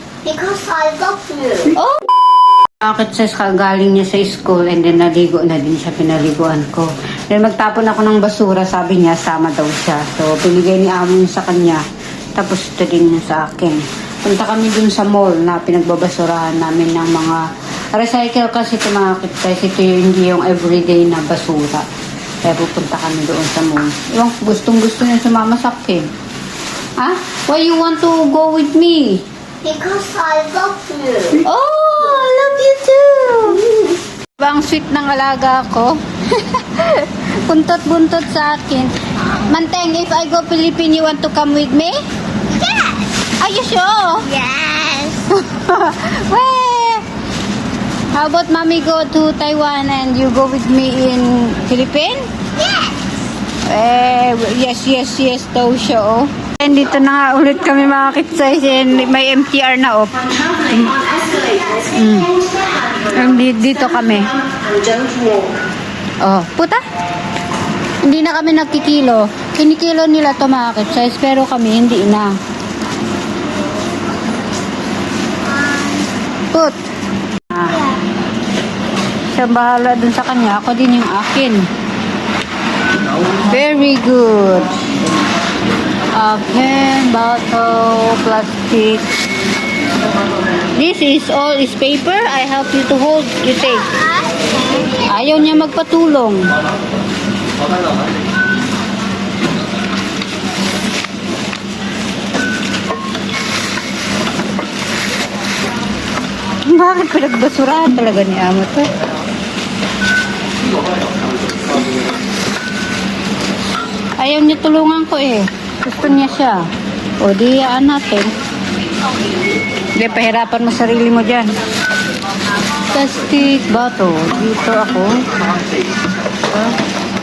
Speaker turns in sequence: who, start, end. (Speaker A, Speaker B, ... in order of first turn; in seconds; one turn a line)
Speaker A: 0.2-1.8
Speaker B: 1.7-2.0
Speaker B: 2.8-11.8
Speaker B: 12.3-17.4
Speaker B: 17.9-21.8
Speaker B: 22.4-26.1
Speaker B: 27.0-29.2
Speaker A: 29.6-31.4
Speaker B: 31.4-33.6
Speaker B: 34.4-42.0
Speaker A: 42.5-43.1
Speaker B: 43.4-44.3
Speaker A: 44.1-45.3
Speaker B: 45.3-47.0
Speaker B: 48.1-52.3
Speaker A: 52.6-52.9
Speaker B: 53.7-61.0
Speaker A: 60.9-63.2
Speaker B: 61.9-62.3
Speaker B: 63.0-64.3
Speaker A: 64.4-65.5
Speaker B: 66.2-66.8
Speaker B: 68.0-72.3
Speaker A: 75.6-75.9
Speaker B: 76.5-76.8
Speaker B: 77.5-77.8
Speaker B: 79.3-81.7
Speaker B: 83.3-84.8
Speaker B: 86.1-89.1
Speaker B: 90.7-94.0
Speaker A: 93.9-95.0
Speaker B: 94.9-96.5
Speaker B: 106.7-108.9
Speaker B: 114.2-116.7
Speaker B: 117.2-118.3
Speaker B: 120.0-121.5
Speaker B: 122.9-125.2